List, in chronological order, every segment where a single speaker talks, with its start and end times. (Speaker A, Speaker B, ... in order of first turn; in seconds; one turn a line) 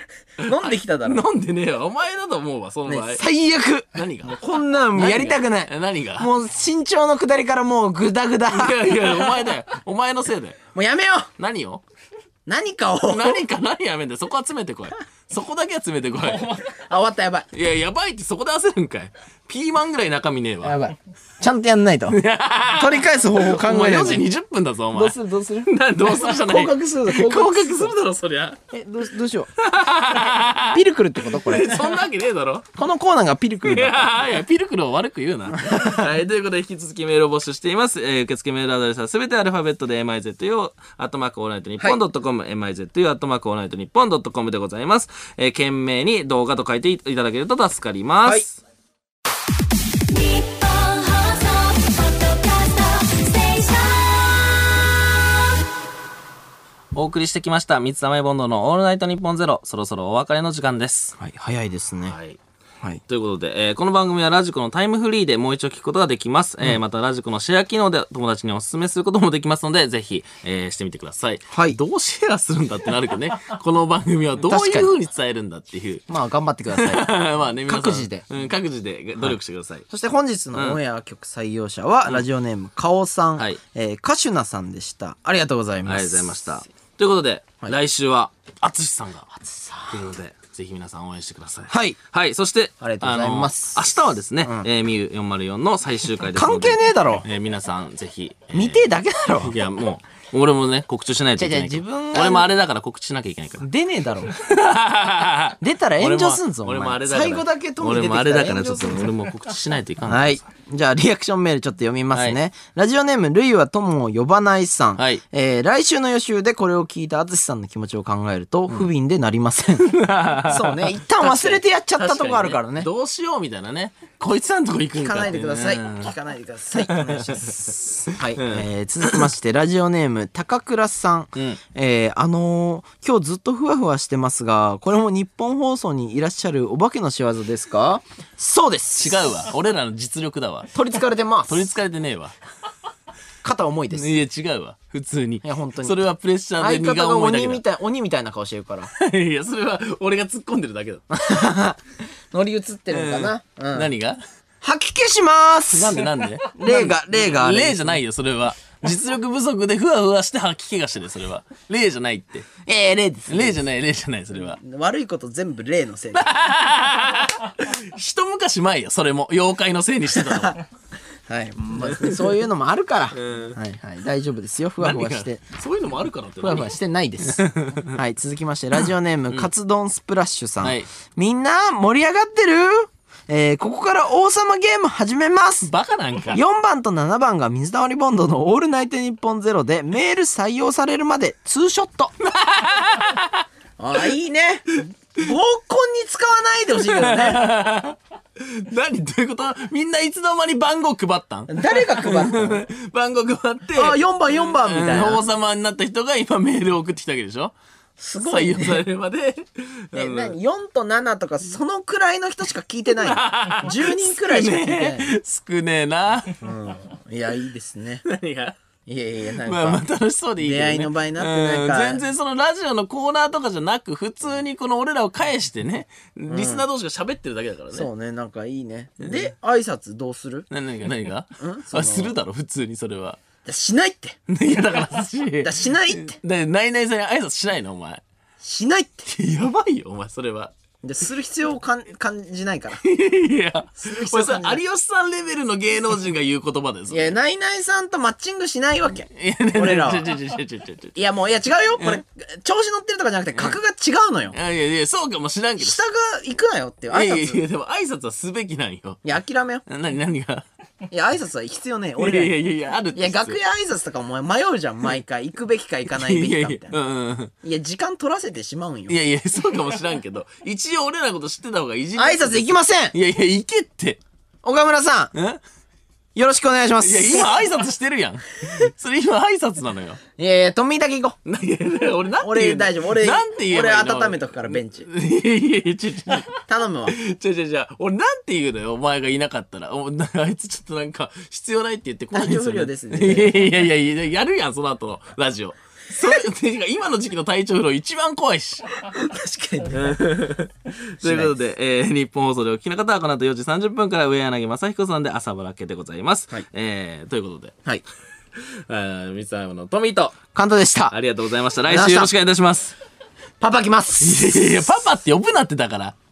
Speaker A: 0.4-1.2
Speaker B: 0.4-3.2
Speaker A: 2.9-9.1
Speaker B: 3.9-4.4
Speaker B: 4.9-6.3
Speaker B: 8.5-10.6
Speaker A: 10.7-11.3
Speaker B: 11.4-11.8
Speaker A: 12.5-13.4
Speaker B: 13.1-16.6
Speaker A: 16.4-17.5
Speaker B: 17.5-20.8
Speaker A: 20.6-24.3
Speaker B: 22.1-28.6
Speaker A: 24.9-27.9
Speaker A: 28.7-29.5
Speaker B: 29.6-32.7
Speaker A: 30.5-32.0
Speaker A: 32.8-34.3
Speaker B: 33.6-48.6
Speaker A: 35.6-36.0
Speaker C: 50.1-54.8
Speaker B: 57.0-61.2
Speaker A: 61.2-62.1
Speaker B: 62.0-62.4
Speaker B: 63.1-76.1
Speaker A: 71.5-71.8
Speaker A: 74.4-75.0
Speaker A: 76.1-77.1
Speaker B: 76.7-79.9
Speaker A: 77.7-78.2
Speaker A: 79.9-86.4
Speaker B: 80.5-80.8
Speaker B: 85.8-89.3
Speaker A: 89.3-90.0
Speaker B: 89.9-98.8
Speaker A: 91.7-92.0
Speaker A: 92.8-93.8
Speaker A: 94.4-94.7
Speaker A: 96.3-97.2
Speaker A: 98.5-99.6
Speaker B: 99.4-103.7
Speaker A: 101.4-102.5
Speaker A: 103.6-104.3
Speaker B: 104.3-110.4
Speaker A: 105.6-109.1
Speaker A: 110.0-122.9
Speaker B: 115.0-115.2
Speaker B: 119.8-126.1
Speaker A: 125.0-139.5
Speaker B: 126.8-129.2
Speaker B: 139.0-140.7
Speaker A: 140.7-141.7
Speaker B: 141.5-142.3
Speaker A: 143.4-144.2
Speaker B: 143.9-147.6
Speaker A: 145.4-146.0
Speaker A: 146.6-148.9
Speaker B: 148.9-151.1
Speaker A: 151.1-153.9
Speaker B: 152.9-154.2
Speaker A: 154.6-158.0
Speaker B: 155.7-162.5
Speaker A: 162.7-163.6
Speaker B: 163.3-164.6
Speaker A: 164.4-166.3
Speaker B: 166.1-170.6
Speaker A: 170.2-170.5
Speaker A: 171.3-175.4
Speaker B: 171.8-172.3
Speaker B: 173.2-173.6
Speaker B: 174.8-176.7
Speaker A: 176.4-185.7
Speaker B: 177.3-178.0
Speaker B: 180.6-180.9
Speaker B: 185.7-186.4
Speaker A: 186.3-192.1
Speaker B: 192.2-193.4
Speaker A: 193.8-197.5
Speaker B: 196.8-207.6
Speaker A: 201.5-202.7
Speaker A: 203.7-205.2
Speaker A: 208.0-208.8
Speaker B: 208.2-210.4
Speaker A: 209.9-215.1
Speaker B: 212.9-216.4
Speaker A: 216.4-218.0
Speaker B: 218.1-218.6
Speaker A: 218.9-219.9
Speaker B: 219.4-227.9
Speaker A: 220.4-222.0
Speaker A: 226.3-226.6
Speaker A: 227.7-230.5
Speaker B: 229.0-229.3
Speaker B: 230.5-233.2
Speaker A: 231.4-232.2
Speaker A: 233.4-234.2
Speaker B: 234.3-238.0
Speaker A: 235.4-236.2
Speaker A: 238.4-239.1
Speaker B: 239.1-240.5
Speaker A: 240.8-242.8
Speaker B: 242.8-247.2
Speaker A: 243.8-244.6
Speaker A: 246.9-250.1
Speaker B: 249.2-251.0
Speaker A: 250.9-254.4
Speaker B: 254.3-255.8
Speaker A: 255.6-257.4
Speaker B: 256.9-259.0
Speaker A: 259.0-259.6
Speaker B: 259.7-260.4
Speaker A: 260.9-262.4
Speaker B: 262.0-263.4
Speaker A: 262.9-266.8
Speaker B: 265.9-267.3
Speaker A: 267.4-269.0
Speaker B: 268.9-274.0
Speaker A: 272.0-272.9
Speaker A: 274.4-275.1
Speaker B: 275.1-275.4
Speaker A: 276.1-277.4
Speaker B: 276.8-280.0
Speaker A: 280.2-281.2
Speaker B: 281.2-298.7
Speaker A: 282.2-284.9
Speaker A: 286.3-287.0
Speaker A: 292.1-293.5
Speaker A: 298.8-300.1
Speaker B: 299.7-307.6
Speaker A: 301.0-301.3
Speaker B: 308.4-310.2
Speaker A: 310.3-310.9
Speaker B: 310.9-312.8
Speaker A: 311.7-312.1
Speaker A: 313.4-314.7
Speaker B: 314.0-316.0